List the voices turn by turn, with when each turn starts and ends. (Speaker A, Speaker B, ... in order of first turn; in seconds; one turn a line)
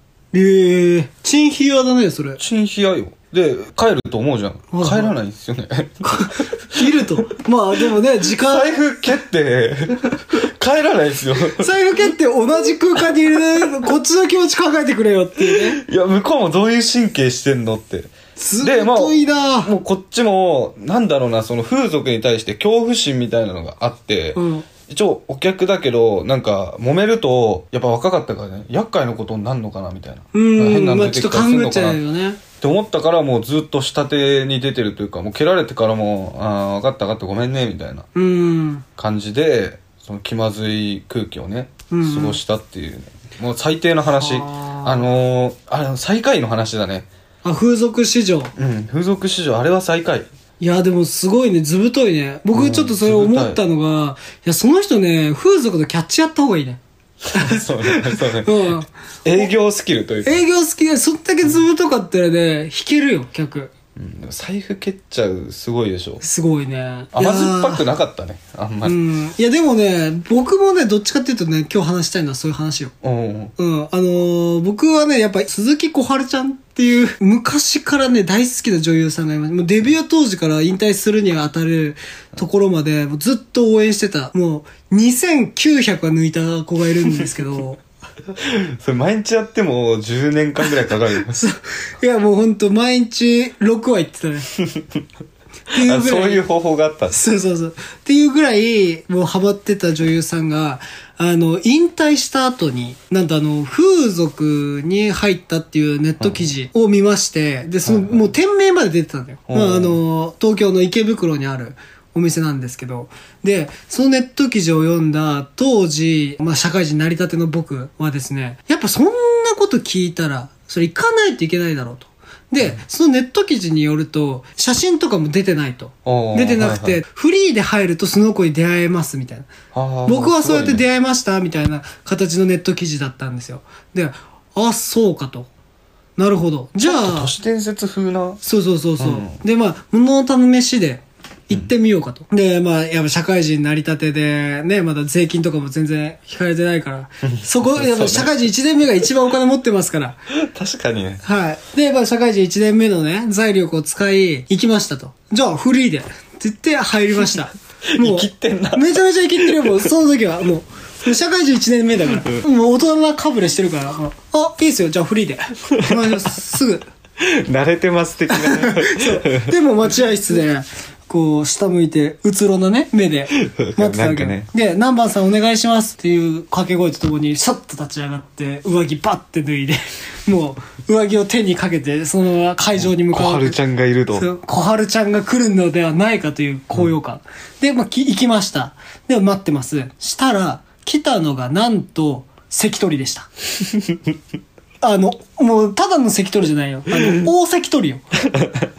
Speaker A: 0.3-2.4
Speaker B: 2.4-7.0
Speaker A: 4.7-5.1
Speaker A: 6.1-8.7
Speaker B: 8.2-11.7
Speaker A: 11.5-15.8
Speaker B: 15.4-32.0
Speaker A: 18.4-19.7
Speaker A: 24.4-24.7
Speaker A: 30.3-32.4
Speaker B: 32.6-38.1
Speaker A: 38.1-38.9
Speaker B: 39.0-47.1
Speaker A: 41.9-42.4
Speaker A: 44.1-45.1
Speaker A: 47.4-48.5
Speaker B: 48.6-50.3
Speaker A: 50.6-56.8
Speaker B: 52.5-53.6
Speaker A: 57.3-59.5
Speaker B: 57.3-60.4
Speaker A: 60.2-63.7
Speaker B: 64.0-66.2
Speaker A: 66.2-67.8
Speaker B: 67.1-69.0
Speaker A: 68.8-72.9
Speaker B: 73.0-73.5
Speaker A: 73.6-87.8
Speaker B: 88.4-91.4
Speaker A: 91.3-94.5
Speaker A: 95.7-96.4
Speaker B: 95.8-97.2
Speaker A: 97.1-129.5
Speaker B: 106.2-106.5
Speaker B: 107.8-108.2
Speaker B: 109.5-110.0
Speaker B: 126.0-127.0
Speaker B: 129.7-130.8
Speaker A: 130.1-135.5
Speaker A: 136.2-137.3
Speaker B: 136.8-138.4
Speaker A: 138.4-150.2
Speaker B: 139.0-139.4
Speaker B: 147.2-148.4
Speaker B: 150.3-151.2
Speaker A: 151.2-166.8
Speaker B: 157.9-159.9
Speaker B: 165.7-166.3
Speaker B: 167.2-169.5
Speaker A: 168.3-183.6
Speaker B: 173.3-174.5
Speaker B: 182.8-184.3
Speaker A: 184.1-193.3
Speaker A: 194.8-198.0
Speaker B: 196.9-197.3